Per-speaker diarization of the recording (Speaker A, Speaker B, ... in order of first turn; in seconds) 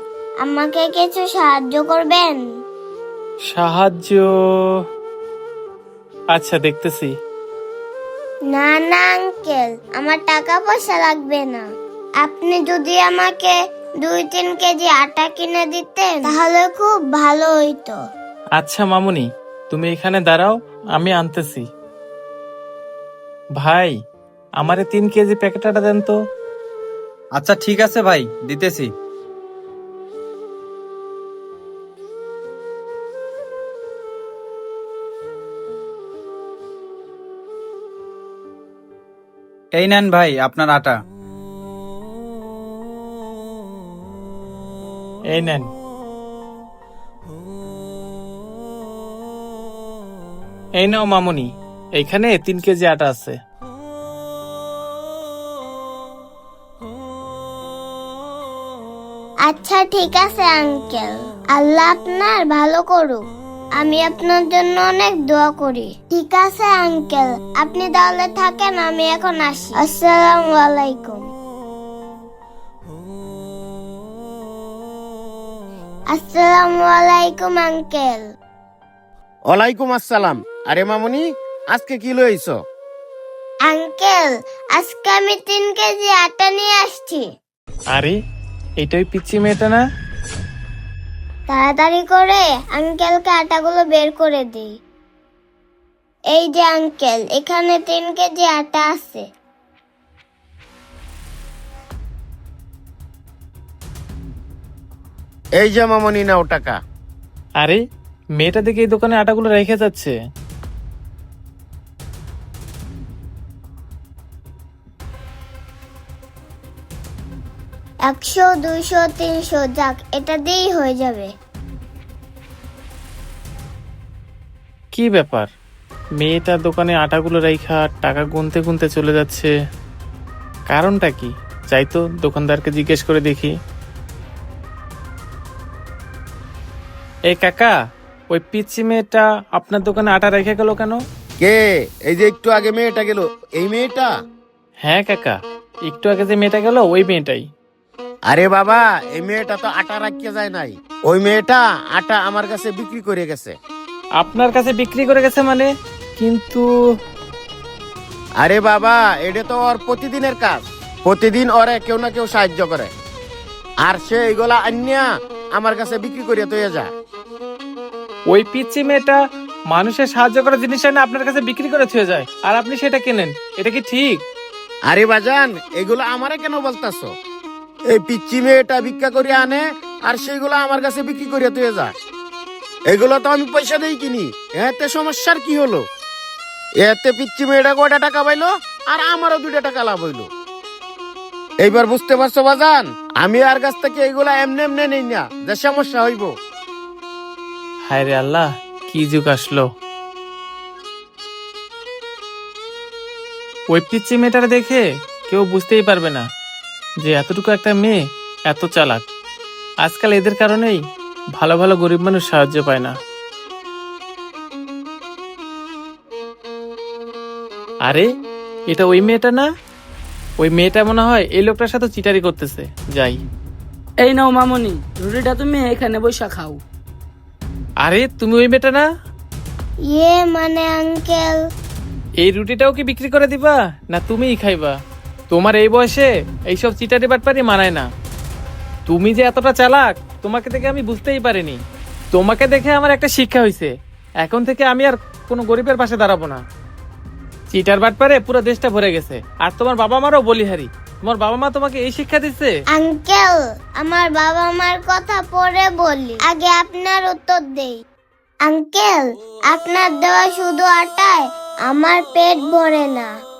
Speaker A: 0.4-2.4, 8.5-11.6, 12.2-18.0, 59.5-63.2, 63.8-71.3, 76.1-78.3, 83.7-87.3, 91.5-94.7, 96.3-99.2, 118.1-121.3, 229.9-231.4, 252.7-257.8, 258.4-263.1
Speaker B: 3.5-4.2, 6.3-7.1, 18.6-21.6, 23.6-23.9, 24.6-26.1, 45.3-45.7, 50.8-53.4, 88.8-89.8, 108.4-110.1, 124.9-125.5, 126.2-129.5, 130.7-133.5, 137.3-137.7, 138.3-141.0, 144.9-145.4, 145.9-147.4, 154.2-156.7, 168.3-169.2, 169.7-174.2, 197.9-199.7, 203.7-206.2, 207.0-208.0, 208.5-209.0, 209.8-210.8, 211.4-212.9, 218.7-219.4, 220.4-223.2, 227.8-228.8, 232.2-234.7, 235.3-237.9, 238.9-241.6, 242.1-243.7, 244.2-246.4, 247.5-252.5
Speaker C: 27.4-28.9, 39.7-41.0
Speaker D: 79.5-82.6, 105.6-106.8, 141.4-144.1, 148.3-153.6, 158.4-162.9, 163.8-166.9, 174.9-177.1, 177.9-181.9, 182.9-185.8, 186.8-190.3, 191.6-196.3
Speaker E: 224.0-226.6